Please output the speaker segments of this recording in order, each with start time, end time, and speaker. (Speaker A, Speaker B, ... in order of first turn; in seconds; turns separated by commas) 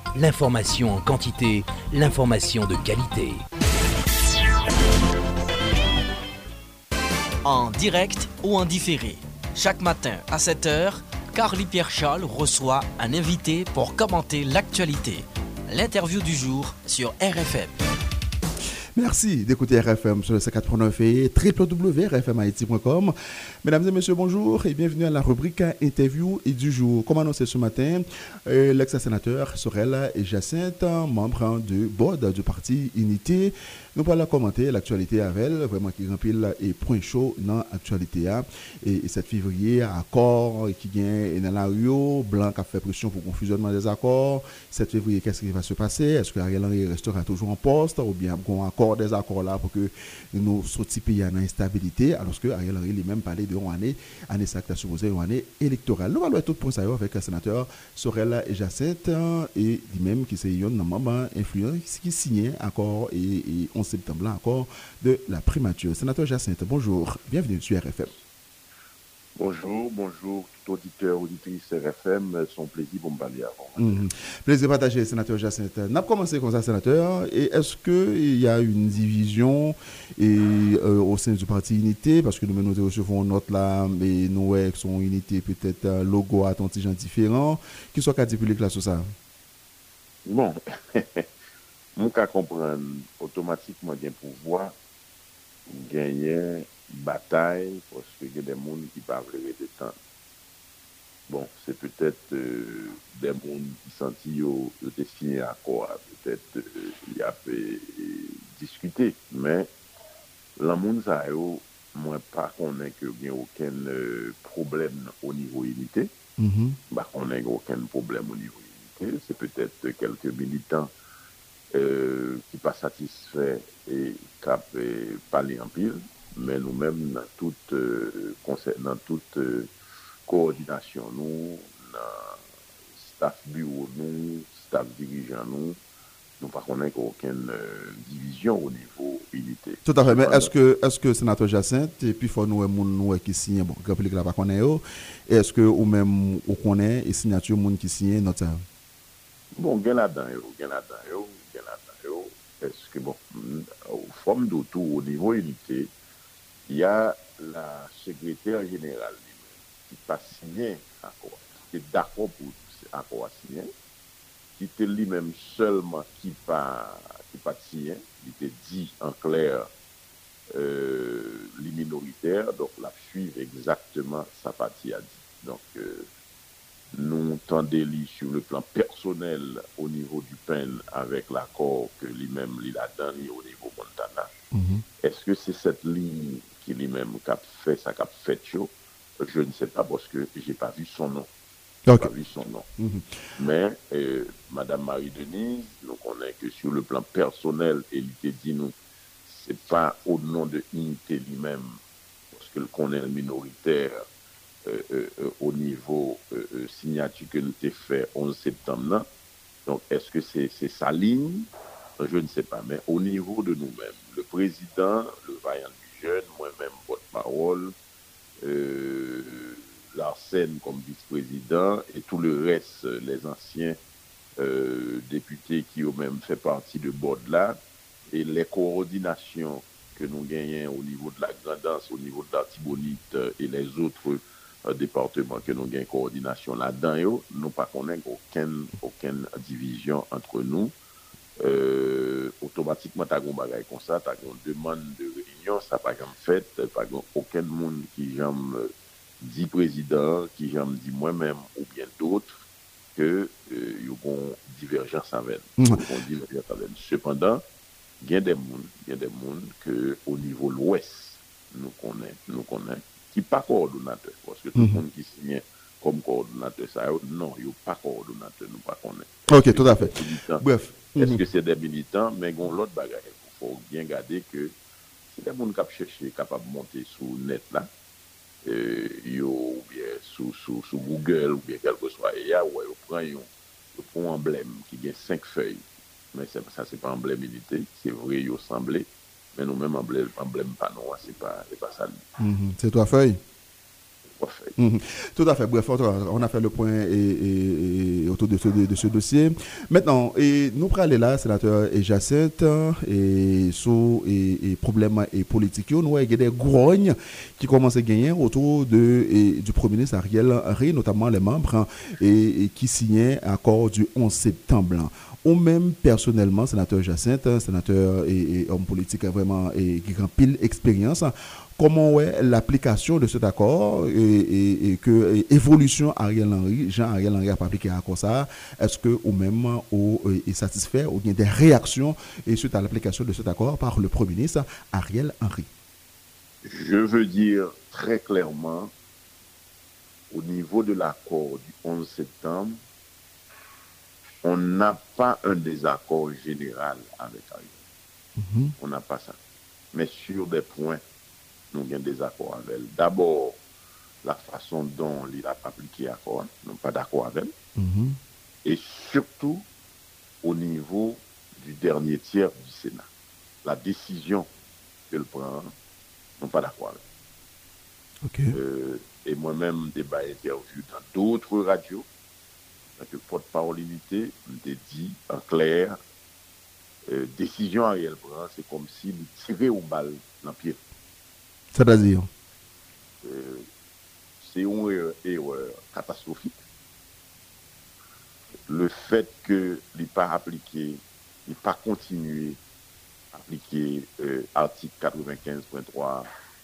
Speaker A: 0.1-3.4, Speaker B: 7.4-17.7, Speaker C: 18.9-68.1, Speaker D: 69.3-74.0, Speaker C: 73.8-89.1, Speaker D: 90.2-91.3, Speaker D: 92.0-94.7, Speaker D: 95.7-99.9, Speaker D: 101.3-109.7, Speaker D: 110.6-116.1, Speaker C: 116.4-116.8, Speaker D: 116.9-120.9, Speaker D: 121.7-129.7, Speaker D: 130.3-132.4, Speaker D: 132.9-135.8, Speaker D: 136.4-140.5, Speaker C: 139.8-148.6, Speaker D: 149.5-155.9, Speaker D: 156.7-163.7, Speaker D: 164.6-169.7, Speaker D: 170.5-176.1, Speaker D: 176.9-184.3, Speaker C: 184.5-184.8, Speaker D: 185.0-191.3, Speaker C: 191.9-192.1, Speaker D: 191.9-192.7, Speaker C: 192.8-193.1, Speaker D: 193.4-198.7, Speaker D: 199.2-201.8, Speaker D: 202.3-204.0, Speaker D: 204.6-209.1, Speaker D: 209.7-211.5, Speaker D: 212.0-217.7, Speaker D: 218.4-223.8, Speaker D: 224.4-227.6, Speaker D: 228.1-240.7, Speaker D: 241.4-252.3, Speaker D: 252.9-257.4, Speaker D: 258.0-270.4, Speaker C: 269.3-271.2, Speaker D: 270.9-274.5, Speaker D: 275.1-277.7, Speaker D: 278.4-292.0, Speaker C: 292.2-293.2, Speaker D: 294.1-294.6, Speaker C: 294.6-335.5, Speaker D: 336.4-338.7, Speaker D: 340.1-342.6, Speaker D: 344.2-347.6, Speaker C: 348.2-348.5, Speaker D: 348.6-349.2, Speaker D: 349.7-350.8, Speaker D: 351.5-353.4, Speaker D: 354.0-357.3, Speaker C: 357.6-358.0, Speaker D: 358.4-359.4, Speaker D: 360.2-362.9, Speaker D: 363.4-364.3, Speaker D: 364.9-365.5, Speaker D: 366.2-366.8, Speaker C: 368.0-368.3, Speaker D: 368.3-371.9, Speaker D: 372.8-375.8, Speaker D: 376.9-380.6, Speaker C: 381.5-382.1, Speaker D: 383.0-383.4, Speaker D: 384.2-386.4, Speaker D: 388.5-392.4, Speaker D: 393.1-396.1